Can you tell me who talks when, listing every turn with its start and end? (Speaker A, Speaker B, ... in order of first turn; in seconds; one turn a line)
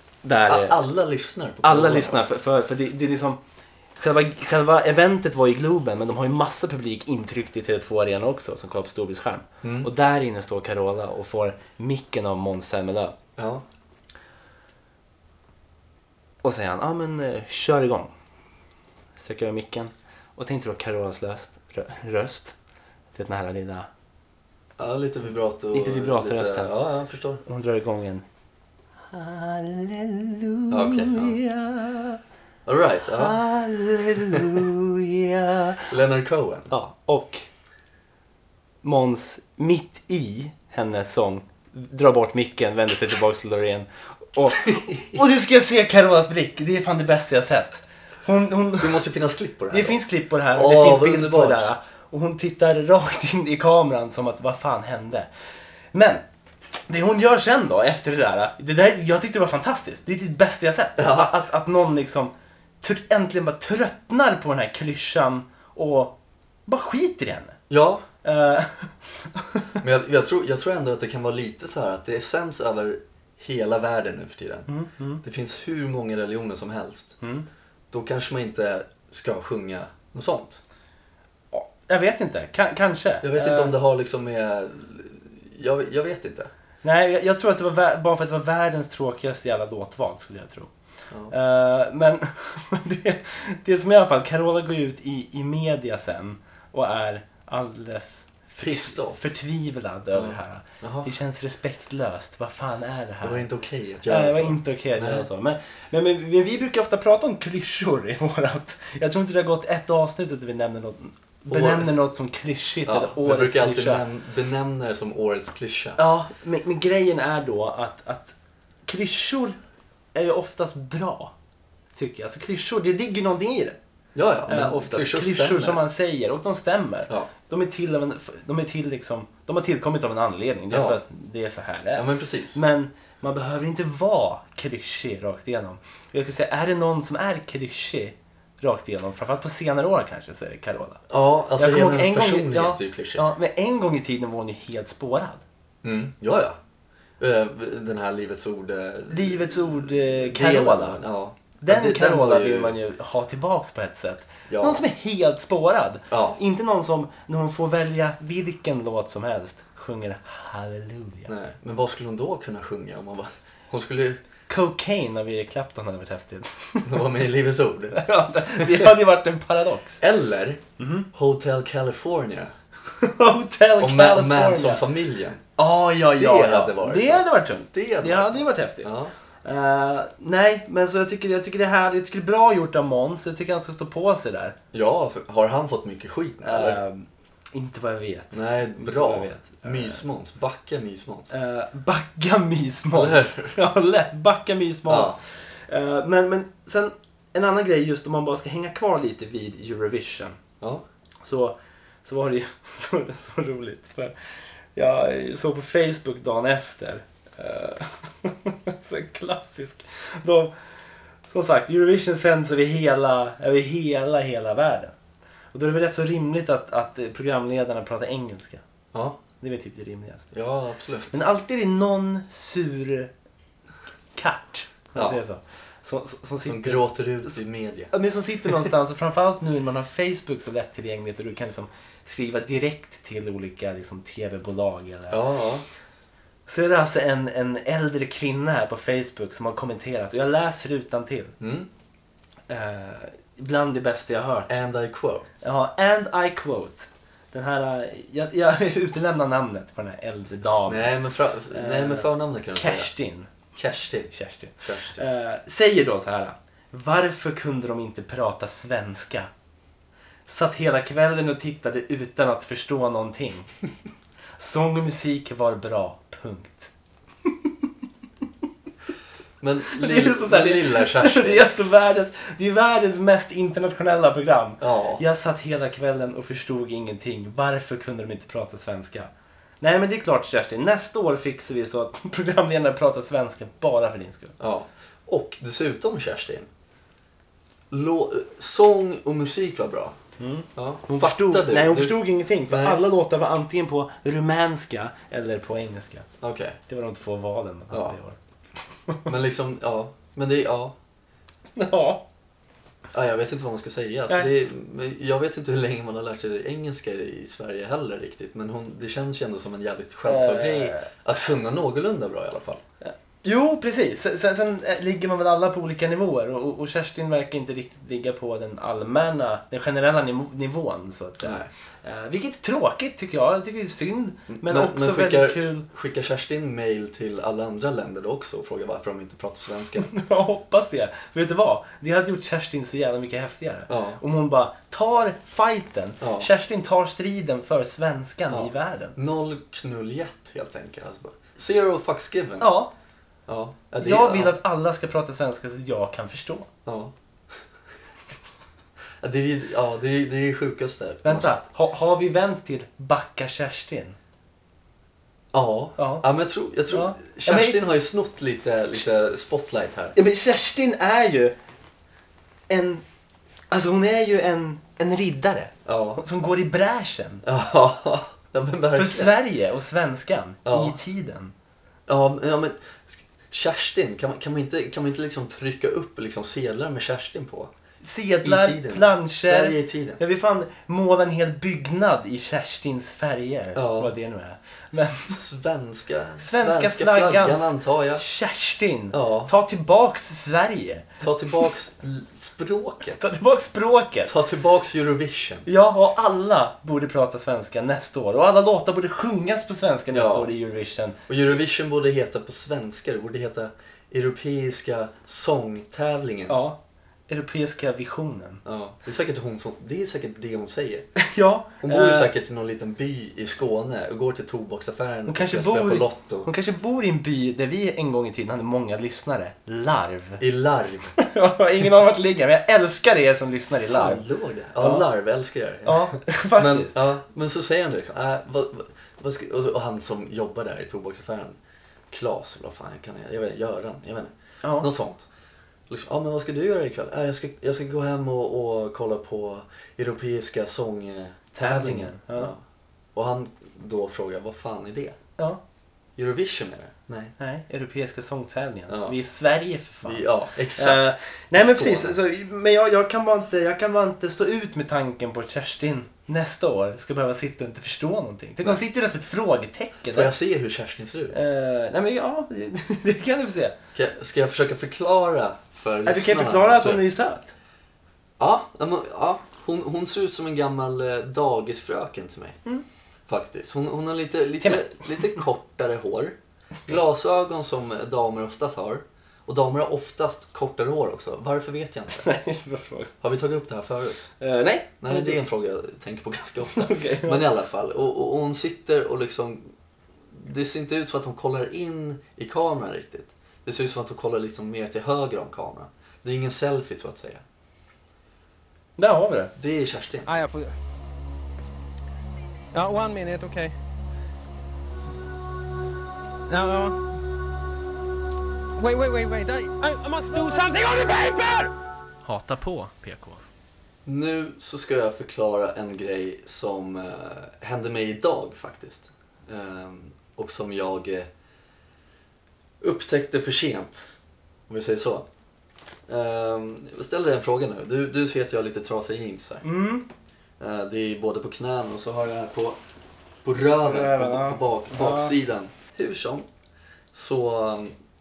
Speaker A: 0.2-0.8
Speaker B: 0.5-2.3
Speaker A: 1.6-3.4
Speaker A: 4.0-13.2
Speaker B: 9.6-9.9
Speaker B: 13.4-13.6
Speaker A: 16.4-18.1
Speaker A: 19.1-22.6
Speaker A: 23.1-23.9
Speaker B: 24.8-27.4
Speaker A: 25.7-26.7
Speaker A: 27.4-28.2
Speaker A: 29.1-32.2
Speaker B: 30.7-31.4
Speaker B: 32.6-33.4
Speaker A: 33.1-35.9
Speaker B: 34.3-34.6
Speaker B: 35.9-36.7
Speaker A: 36.7-37.4
Speaker A: 38.8-49.0
Speaker B: 44.7-45.2
Speaker B: 48.8-51.7
Speaker A: 49.7-55.3
Speaker A: 55.9-56.2
Speaker A: 56.9-67.6
Speaker B: 61.0-61.4
Speaker B: 67.7-68.0
Speaker A: 68.2-69.8
Speaker B: 69.8-74.7
Speaker A: 74.7-75.2
Speaker B: 75.2-77.2
Speaker A: 77.2-77.5
Speaker B: 77.9-80.6
Speaker A: 81.5-83.8
Speaker B: 83.2-86.5
Speaker A: 86.8-90.7
Speaker B: 91.1-91.3
Speaker A: 91.3-103.5
Speaker B: 98.6-99.2
Speaker B: 100.1-101.1
Speaker B: 103.2-105.2
Speaker A: 104.0-114.0
Speaker B: 111.5-111.9
Speaker B: 112.8-116.0
Speaker A: 116.0-119.6
Speaker A: 120.1-121.3
Speaker A: 121.9-123.8
Speaker B: 124.1-125.8
Speaker A: 124.5-141.0
Speaker B: 130.7-131.0
Speaker B: 131.9-132.6
Speaker B: 141.1-143.3
Speaker A: 141.6-145.4
Speaker B: 145.8-146.6
Speaker B: 147.2-152.7
Speaker A: 149.1-151.0
Speaker A: 151.6-161.3
Speaker B: 154.5-154.8
Speaker B: 156.1-156.4
Speaker B: 161.3-164.2
Speaker A: 164.5-167.1
Speaker B: 166.8-168.9
Speaker A: 167.9-170.0
Speaker B: 170.0-172.5
Speaker A: 170.8-171.1
Speaker A: 173.0-174.8
Speaker B: 173.8-175.5
Speaker A: 175.6-184.6
Speaker B: 176.1-179.1
Speaker B: 184.7-186.8
Speaker A: 186.4-190.0
Speaker B: 188.3-191.3
Speaker A: 191.3-200.4
Speaker B: 192.9-193.6
Speaker B: 194.8-195.2
Speaker A: 201.2-210.6
Speaker A: 211.2-214.9
Speaker A: 215.5-218.6
Speaker B: 218.9-219.2
Speaker A: 219.4-220.3
Speaker B: 220.3-221.2
Speaker A: 221.1-223.1
Speaker A: 224.1-227.4
Speaker B: 224.9-225.2
Speaker B: 226.4-227.9
Speaker A: 227.9-235.2
Speaker B: 235.1-235.6
Speaker A: 236.4-241.3
Speaker B: 241.4-241.7
Speaker A: 242.5-244.6
Speaker B: 244.5-245.4
Speaker A: 245.4-250.9
Speaker B: 250.7-252.9
Speaker A: 251.5-253.3
Speaker B: 253.5-254.1
Speaker A: 254.1-259.3
Speaker B: 254.6-255.0
Speaker A: 260.3-263.5
Speaker A: 264.4-266.7
Speaker A: 267.2-267.7
Speaker B: 269.4-271.4
Speaker A: 269.7-284.3
Speaker B: 274.6-275.0
Speaker B: 284.4-286.5
Speaker B: 287.7-289.9
Speaker A: 290.2-296.1
Speaker B: 290.6-292.8
Speaker B: 296.2-296.6
Speaker A: 296.7-298.2
Speaker B: 297.7-298.0
Speaker B: 299.1-300.7
Speaker A: 301.5-302.0
Speaker B: 302.9-312.6
Speaker A: 310.0-310.9
Speaker A: 312.8-325.6
Speaker B: 321.2-321.5
Speaker B: 324.3-329.9
Speaker A: 329.8-339.0
Speaker B: 333.7-334.0
Speaker B: 336.0-336.3
Speaker B: 338.3-342.5
Speaker A: 342.4-342.7
Speaker B: 343.3-344.4
Speaker A: 343.8-346.5
Speaker B: 346.6-346.9
Speaker B: 349.0-351.4
Speaker A: 351.0-354.0
Speaker B: 355.3-359.9
Speaker A: 355.8-356.1
Speaker A: 356.7-357.6
Speaker A: 359.9-361.4
Speaker A: 362.5-362.8
Speaker A: 363.5-367.2
Speaker B: 365.6-366.0
Speaker B: 367.2-369.1
Speaker A: 368.7-371.3
Speaker B: 370.4-370.8
Speaker B: 371.9-377.5
Speaker A: 377.8-385.2
Speaker B: 378.2-380.0
Speaker B: 383.5-383.9
Speaker B: 385.1-388.0
Speaker A: 386.2-391.5
Speaker B: 388.9-389.3
Speaker B: 391.0-393.1
Speaker A: 393.0-394.1
Speaker B: 394.1-395.5
Speaker A: 395.4-401.0
Speaker B: 399.9-400.3
Speaker B: 401.1-406.4
Speaker A: 406.3-408.4
Speaker B: 408.4-410.9
Speaker A: 411.0-412.1
Speaker B: 411.6-416.3
Speaker A: 415.1-420.2
Speaker B: 420.2-421.0
Speaker A: 421.0-424.0
Speaker B: 423.7-431.4
Speaker A: 424.6-424.9
Speaker A: 425.6-426.7
Speaker B: 431.9-435.1
Speaker A: 434.4-434.7
Speaker B: 435.7-442.4
Speaker A: 441.3-442.3
Speaker B: 442.9-445.0
Speaker B: 446.0-447.1
Speaker A: 447.2-460.1
Speaker B: 448.7-448.9
Speaker B: 449.8-451.9
Speaker B: 459.9-461.2
Speaker A: 461.1-463.6
Speaker B: 463.7-466.8
Speaker A: 465.8-467.3
Speaker B: 468.2-472.4
Speaker B: 473.1-482.1
Speaker A: 481.9-482.9
Speaker B: 483.0-484.1
Speaker A: 484.2-485.2
Speaker B: 484.8-489.5
Speaker A: 486.4-487.3
Speaker B: 490.1-497.2
Speaker A: 498.8-499.3
Speaker B: 499.4-500.1
Speaker C: 500.1-500.5
Speaker C: 502.5-503.5
Speaker C: 506.3-506.8
Speaker C: 508.6-511.5
Speaker A: 512.0-513.2
Speaker B: 513.9-521.1
Speaker B: 522.6-523.9
Speaker B: 524.5-525.0
Speaker B: 525.9-529.4
Speaker A: 529.4-529.9
Speaker B: 530.4-532.6
Speaker B: 533.2-536.3
Speaker A: 533.4-535.1
Speaker B: 536.9-537.7